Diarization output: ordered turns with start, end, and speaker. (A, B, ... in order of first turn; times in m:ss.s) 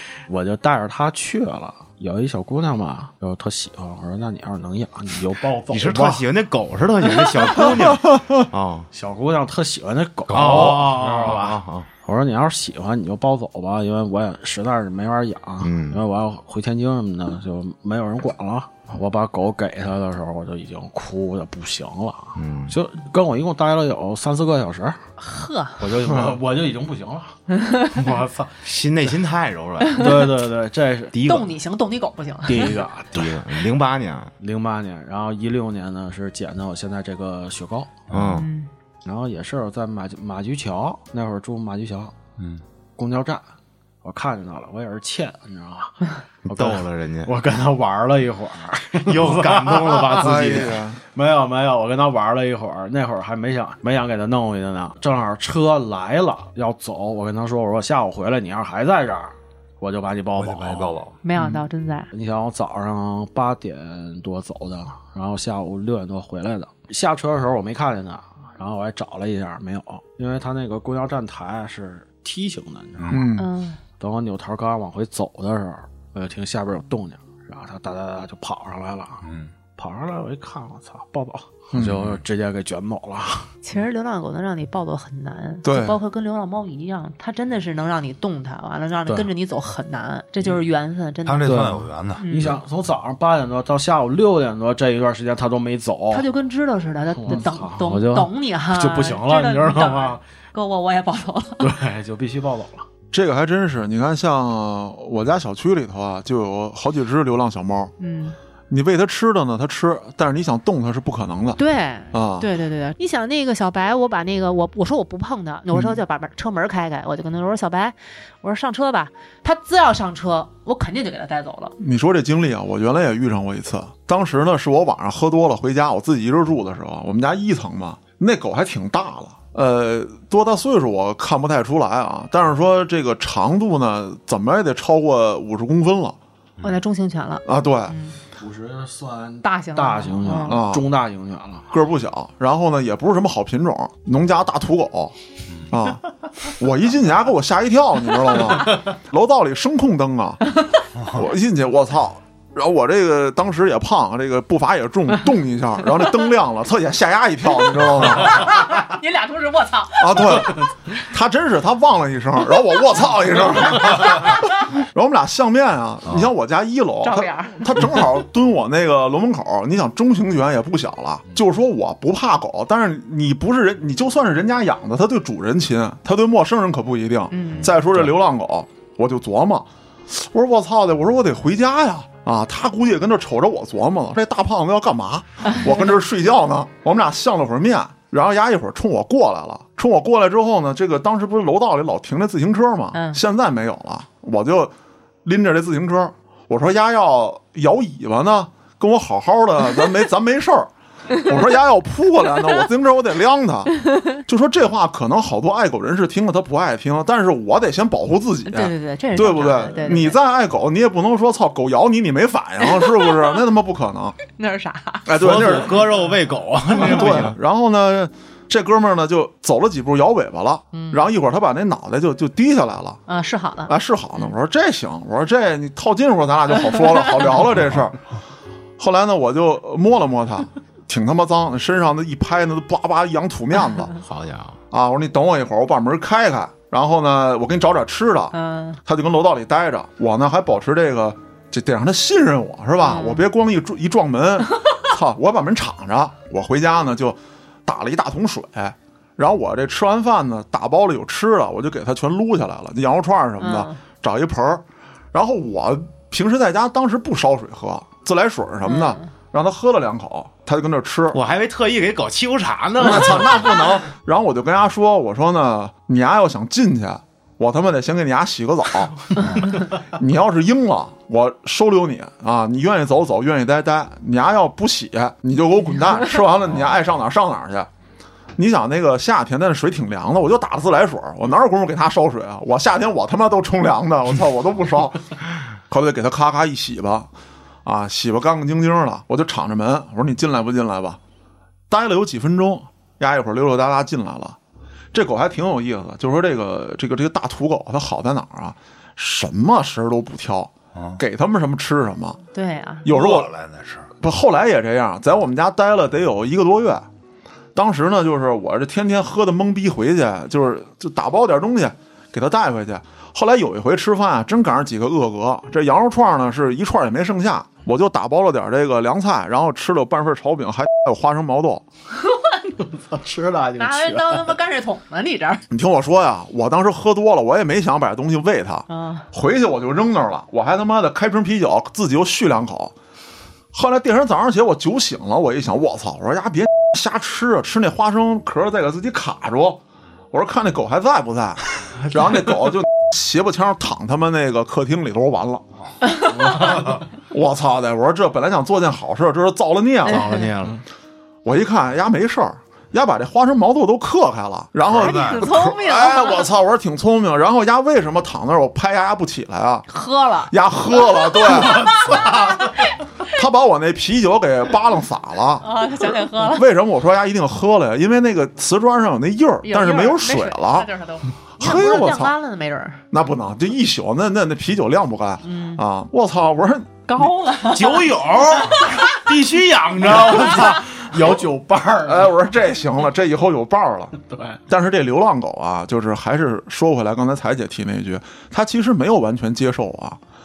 0:00.3-0:06.2 A
0:05.7-0:08.9 B
0:08.9-0:25.0 A
0:10.3-0:11.9 B
0:15.6-0:16.0 B
0:22.4-0:22.8 B
0:25.2-0:25.8 C
0:25.8-0:27.4 A
0:27.6-0:27.9 C
0:27.9-0:28.6 A
0:28.6-0:30.3 B
0:30.0-0:31.1 A
0:31.1-0:31.5 B
0:31.2-0:32.8 C
0:32.4-0:33.5 A
0:33.1-0:34.3 B
0:34.4-0:37.9 A
0:38.1-0:38.4 D
0:38.1-0:38.5 B
0:38.3-0:38.7 C
0:39.0-0:42.1 A
0:43.0-0:43.4 A
0:44.0-1:01.0 A
0:46.5-0:47.3 B
0:49.0-0:50.8 B
0:50.2-0:51.0 E
1:00.4-1:01.2 D
1:01.2-1:02.1 C
1:02.1-1:13.3 A
1:13.0-1:13.3 D
1:13.1-1:13.5 E
1:13.4-1:13.8 C
1:14.0-1:19.2 A
1:19.2-1:19.5 D
1:19.8-1:23.5 A
1:21.7-1:22.1 E
1:23.6-1:31.6 C
1:25.6-1:26.0 E
1:31.2-1:32.5 D
1:31.4-1:36.3 A
1:32.2-1:32.6 C
1:36.1-1:41.7 C
1:37.2-1:40.2 A
1:41.6-1:42.8 A
1:43.1-1:47.9 E
1:48.0-1:48.4 C
1:48.7-1:51.6 E
1:51.6-2:01.7 C
1:52.1-1:52.5 E
1:55.7-1:56.0 E
2:01.8-2:16.2 E
2:16.6-2:18.2 C
2:17.4-2:17.9 E
2:18.4-2:21.7 A
2:19.4-2:20.6 C
2:20.4-2:20.8 E
2:21.7-2:25.1 E
2:25.7-2:30.5 E
2:31.1-2:38.6 E
2:37.7-2:40.7 C
2:40.0-3:14.7 E
2:47.0-2:47.7 C
2:57.3-2:57.8 C
3:12.9-3:13.2 C
3:15.2-3:34.2 E
3:28.4-3:30.2 C
3:32.8-3:33.1 C
3:34.3-3:35.1 C
3:35.0-3:36.0 E
3:35.2-3:37.4 B
3:36.7-3:43.0 E
3:40.7-3:41.1 C
3:43.1-3:44.3 C
3:43.7-3:48.0 E
3:48.8-3:53.9 E
3:54.0-3:54.6 B
3:54.7-4:21.2 E
3:58.3-3:58.8 C
4:02.8-4:03.3 C
4:13.4-4:13.8 C
4:18.6-4:19.0 C
4:21.1-4:23.6 B
4:22.8-4:37.7 E
4:38.4-4:45.0 E
4:45.7-4:47.1 E
4:47.6-4:51.0 E
4:51.7-4:54.4 E
4:54.9-5:02.2 E
5:00.7-5:01.0 D
5:02.3-5:02.9 C
5:02.8-5:03.3 E
5:02.9-5:03.9 D
5:04.0-5:06.9 E
5:07.5-5:21.6 E
5:22.6-5:24.3 A
5:23.6-5:25.4 C
5:25.5-5:32.7 E
5:28.7-5:29.0 C
5:33.5-5:39.6 E
5:40.1-5:45.4 E
5:46.1-5:46.7 A
5:46.4-5:50.2 E
5:49.9-5:50.2 C
5:49.9-5:50.6 B
5:51.2-5:59.6 E
5:54.7-5:55.2 D
5:54.8-5:56.3 C
5:59.7-6:02.6 C
6:00.3-6:02.2 E
6:03.0-6:05.5 E
6:05.4-6:06.4 C
6:06.1-6:10.7 E
6:09.4-6:12.8 C
6:11.4-6:12.1 E
6:12.9-6:17.1 E
6:15.2-6:15.6 C
6:16.9-6:18.8 C
6:17.4-6:21.1 B
6:19.8-6:22.1 A
6:21.9-6:24.0 E
6:24.0-6:24.4 A
6:24.5-6:30.0 E